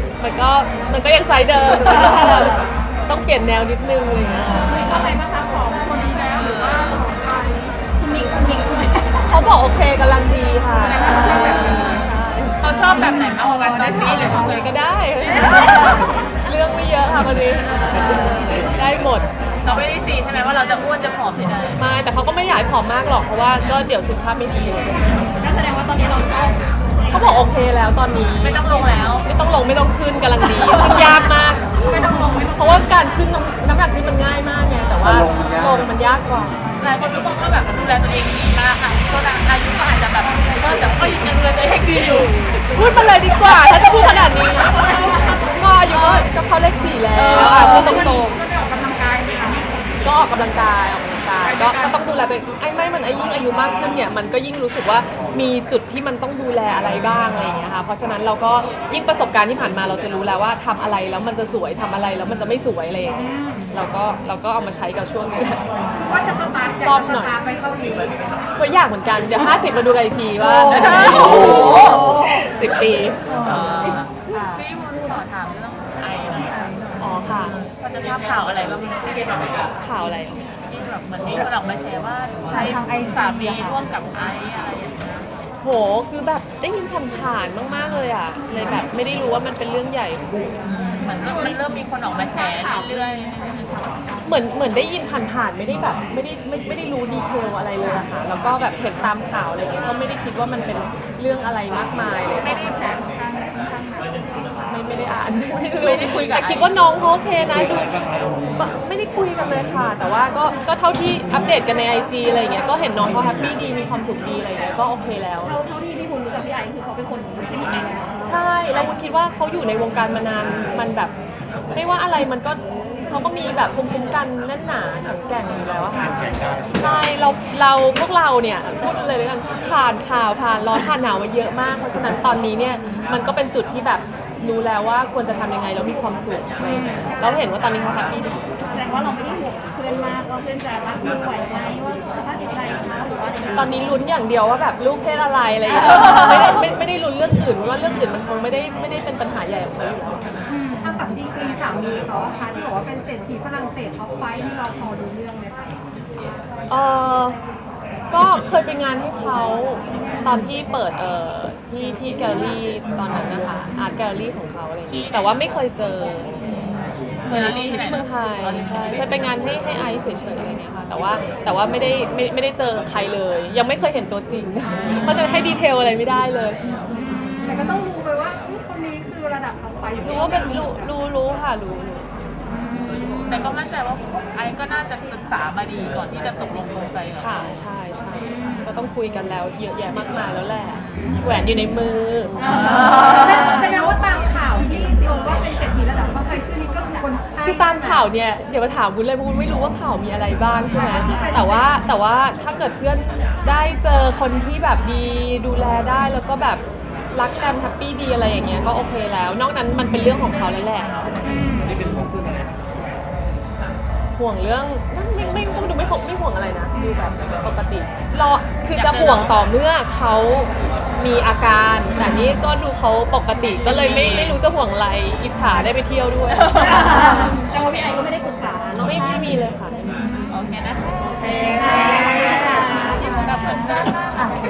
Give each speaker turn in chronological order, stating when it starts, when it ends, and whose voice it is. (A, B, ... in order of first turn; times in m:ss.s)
0:00.2-0:05.2 A
0:04.7-0:05.1 B
0:04.7-0:09.4 C
0:06.3-0:07.0 B
0:09.2-0:12.6 A
0:10.9-0:12.1 B
0:12.6-0:14.7 B
0:13.5-0:14.0 C
0:14.4-0:19.3 A
0:15.6-0:15.9 C
0:17.9-0:18.7 B
0:19.6-0:21.8 B
0:21.8-0:25.3 A
0:25.4-0:27.4 C
0:27.1-0:28.6 A
0:28.4-0:29.3 B
0:29.2-0:36.6 A
0:30.4-0:31.3 B
0:36.8-0:45.2 B
0:42.7-0:48.3 A
0:45.9-0:46.3 B
0:47.1-0:48.2 B
0:47.7-0:49.6 C
0:50.0-1:05.6 A
1:02.2-1:02.5 B
1:06.0-1:08.2 D
1:06.8-1:07.3 A
1:08.6-1:14.0 A
1:10.4-1:12.1 B
1:13.4-1:19.8 B
1:17.0-1:17.5 A
1:19.8-1:20.5 A
1:20.6-1:25.3 B
1:22.5-1:23.8 C
1:25.6-1:30.2 A
1:27.7-1:28.1 B
1:30.6-1:34.1 B
1:34.2-1:42.7 A
1:42.4-1:42.9 B
1:43.4-1:44.1 C
1:44.7-1:55.5 A
1:45.8-1:46.7 B
1:55.4-1:58.3 C
1:58.2-2:01.1 A
2:01.7-2:18.4 A
2:16.8-2:17.2 C
2:18.7-2:23.7 C
2:23.5-2:30.4 A
2:30.5-2:31.0 C
2:30.8-2:35.6 D
2:36.7-2:37.4 A
2:38.1-2:46.3 A
2:47.2-2:56.6 A
2:47.3-2:49.2 B
2:57.1-2:57.8 B
2:57.4-3:00.9 D
3:00.0-3:02.1 A
3:02.5-3:03.3 C
3:03.2-3:07.4 B
3:07.2-3:12.4 A
3:10.7-3:11.2 B
3:12.4-3:13.6 B
3:12.4-3:13.7 C
3:12.5-3:18.0 D
3:17.4-3:26.6 A
3:20.7-3:21.1 B
3:20.8-3:21.7 D
3:27.1-3:31.1 A
3:31.3-3:31.8 C
3:34.2-3:47.2 A
3:38.7-3:39.4 B
3:42.0-3:42.4 B
3:43.5-3:44.4 B
3:46.4-3:47.3 B
3:46.5-3:49.3 C
3:48.8-3:49.7 A
3:50.3-3:50.9 B
3:51.4-3:53.3 C
3:53.1-3:54.3 B